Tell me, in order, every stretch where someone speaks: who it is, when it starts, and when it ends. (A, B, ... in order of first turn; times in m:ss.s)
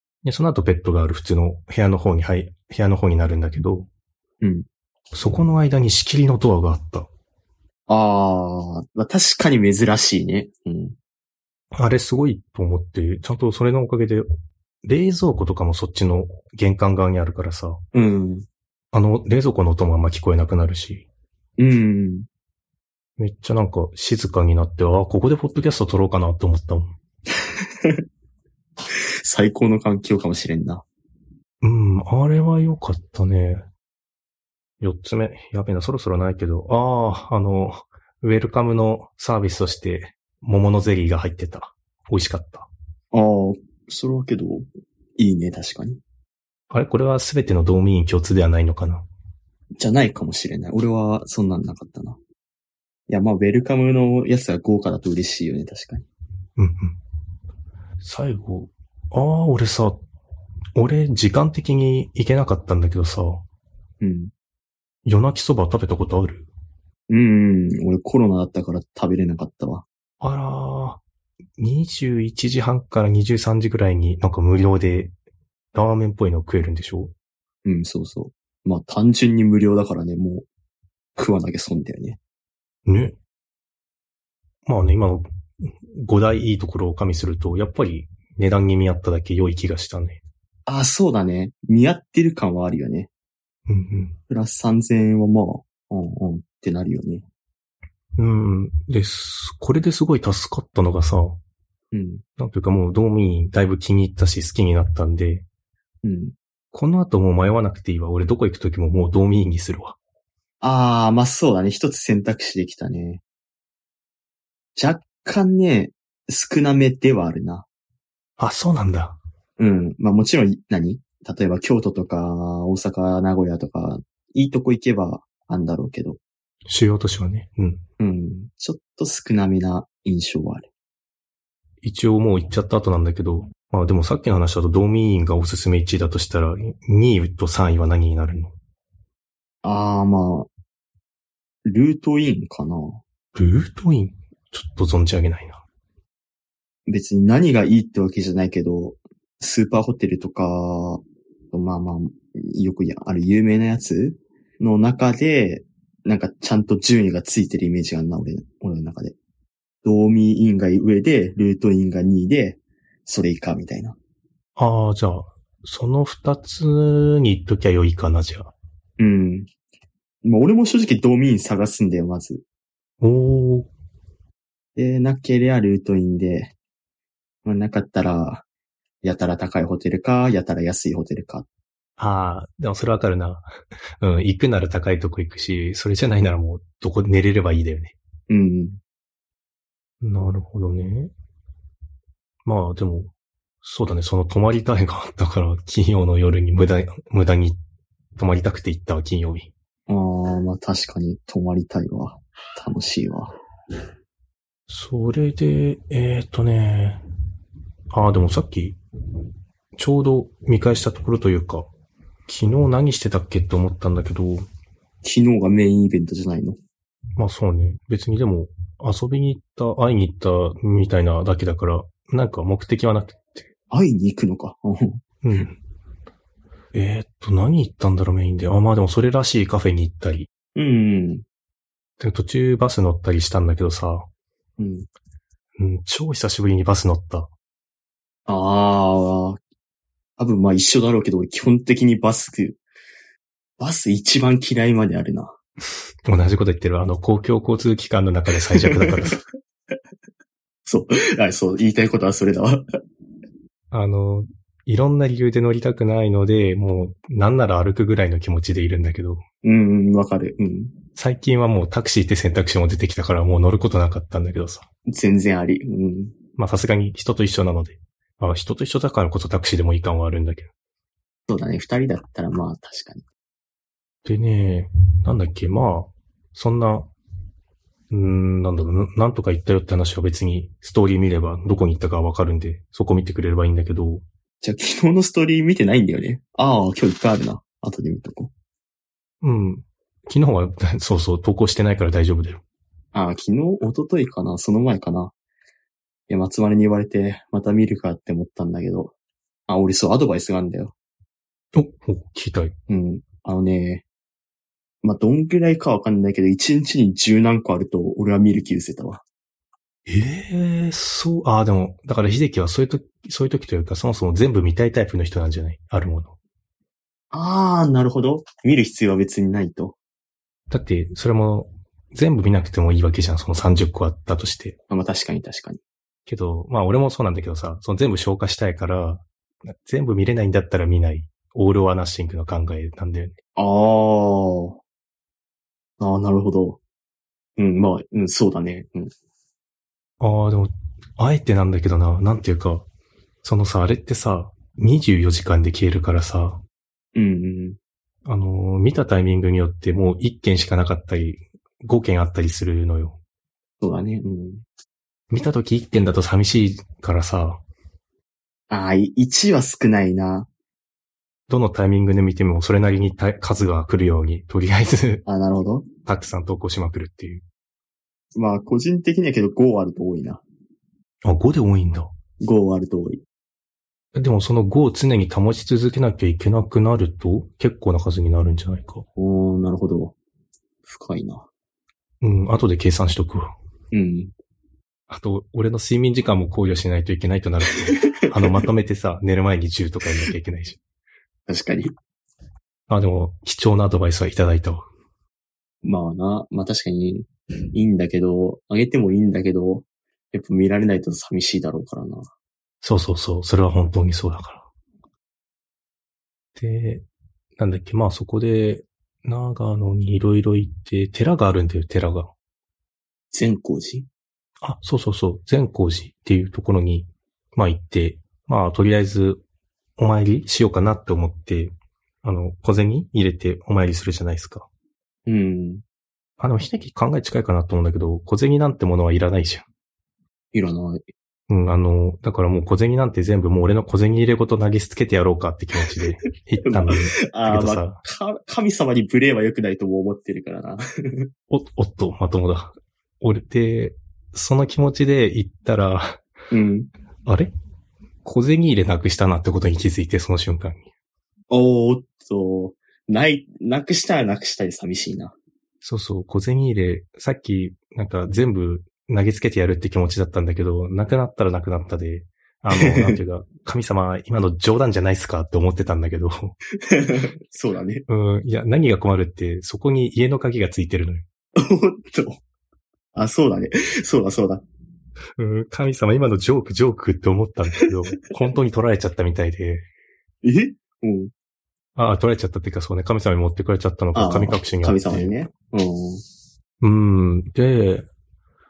0:00.2-0:03.9 A
0:04.4-0:04.7 B
0:05.1-0:07.1 A
0:07.9-0:11.0 B
0:11.7-0:14.3 A
0:14.8-0:17.8 A
0:17.9-0:18.5 B
0:18.9-0:21.0 A
0:21.6-0:22.3 B
0:23.2-0:27.0 A
0:29.2-0:30.8 B
0:31.6-0:33.6 A
0:34.8-0:42.7 A
0:43.1-0:46.0 B
0:46.7-0:49.1 A
0:49.8-0:52.2 B
0:53.1-0:56.1 B
0:56.6-0:57.0 A
0:58.0-1:00.0 A
1:00.8-1:03.4 A
1:04.0-1:04.3 B
1:05.0-1:06.5 A
1:07.1-1:09.8 B
1:10.2-1:11.0 A
1:11.6-1:15.1 A
1:15.7-1:17.1 A
1:17.6-1:20.5 B
1:21.2-1:22.2 B
1:22.9-1:23.2 A
1:24.7-1:30.2 A
1:30.7-1:33.1 B
1:33.7-1:34.2 A
1:34.3-1:37.2 B
1:38.2-1:41.4 A
1:41.9-1:42.2 B
1:42.4-1:45.4 A
1:46.0-1:46.4 B
1:46.7-1:50.0 A
1:50.6-1:53.2 B
1:54.8-1:57.7 B
1:58.4-1:59.2 A
1:59.6-2:06.2 B
2:06.7-2:07.8 A
2:08.0-2:10.7 B
2:11.8-2:18.6 A
2:19.6-2:20.5 B
2:21.6-2:23.0 B
2:23.4-2:25.6 A
2:26.9-2:39.2 B
2:39.8-2:44.0 B
2:44.6-2:48.5 A
2:49.0-2:49.5 B
2:50.2-2:52.4 B
2:53.0-2:53.7 A
2:54.8-2:56.5 B
2:57.4-2:58.4 B
2:59.0-3:01.5 B
3:02.0-3:03.5 A
3:04.0-3:08.0 A
3:08.3-3:08.8 B
3:10.0-3:11.1 A
3:12.4-3:13.1 A
3:13.6-3:17.6 A
3:18.2-3:19.5 A
3:19.9-3:23.3 B
3:24.7-3:27.0 A
3:27.9-3:28.8 A
3:29.8-3:31.7 A
3:32.3-3:34.4 A
3:35.0-3:36.6 B
3:37.2-3:43.5 A
3:43.7-3:45.0 B
3:45.2-3:45.6 A
3:46.7-3:50.3 A
3:50.6-3:51.2 B
3:52.0-3:54.1 A
3:54.6-3:54.9 B
3:55.6-3:57.3 A
3:58.3-3:59.4 B
4:00.2-4:02.6 B
4:03.6-4:05.4 B
4:06.0-4:09.2 A
4:08.6-4:09.2 B
4:10.7-4:12.6 B
4:13.7-4:19.2 A
4:19.4-4:20.8 B
4:21.0-4:24.7 A
4:24.9-4:26.1 B
4:26.4-4:30.5 A
4:31.3-4:33.0 B
4:34.0-4:36.9 A
4:37.9-4:44.0 A
4:44.4-4:48.3 B
4:49.2-4:52.4 A
4:52.9-4:55.1 B
4:56.1-4:58.9 B
4:59.5-5:00.7 B
5:01.5-5:02.6 A
5:02.7-5:03.8 B
5:04.8-5:09.0 B
5:09.9-5:16.1 A
5:17.1-5:19.8 B
5:20.5-5:24.6 A
5:24.7-5:25.6 B
5:26.1-5:33.2 A
5:33.4-5:34.6 B
5:35.8-5:36.6 B
5:37.4-5:38.9 B
5:40.0-5:42.7 A
5:43.2-5:46.4 A
5:47.0-5:47.6 B
5:48.0-5:53.0 A
5:53.6-5:54.4 B
5:55.1-5:57.4 A
5:58.5-6:00.3 B
6:01.3-6:05.0 A
6:05.1-6:05.7 B
6:05.9-6:07.2 A
6:08.2-6:10.2 B
6:11.0-6:11.9 A
6:12.2-6:13.0 B
6:13.9-6:18.9 A
6:19.0-6:20.0 B
6:20.7-6:21.3 B
6:22.0-6:23.3 A
6:23.7-6:24.1 B
6:24.9-6:30.6 A
6:31.3-6:31.8 B
6:32.7-6:34.6 A
6:35.6-6:42.1 B
6:42.6-6:44.5 A
6:46.4-6:46.8 A
6:47.4-6:52.1 A
6:53.1-6:53.9 B
6:54.4-6:59.2 A
6:59.8-7:04.5 A
7:05.1-7:05.6 B
7:06.2-7:09.4 A
7:10.3-7:10.8 B
7:11.3-7:17.8 A
7:16.5-7:21.1 B
7:21.3-7:26.0 A
7:26.3-7:26.7 B
7:27.1-7:27.3 A
7:28.0-7:30.6 A
7:31.3-7:35.2 B
7:35.6-7:46.4 A
7:42.5-7:43.0 B
7:46.6-7:47.8 B
7:47.9-7:51.0 A
7:51.4-7:52.2 B
7:53.0-7:54.5 B
7:55.2-7:59.6 A
8:00.2-8:01.1 B
8:01.8-8:05.2 A
8:04.0-8:06.0 B
8:06.6-8:07.9 A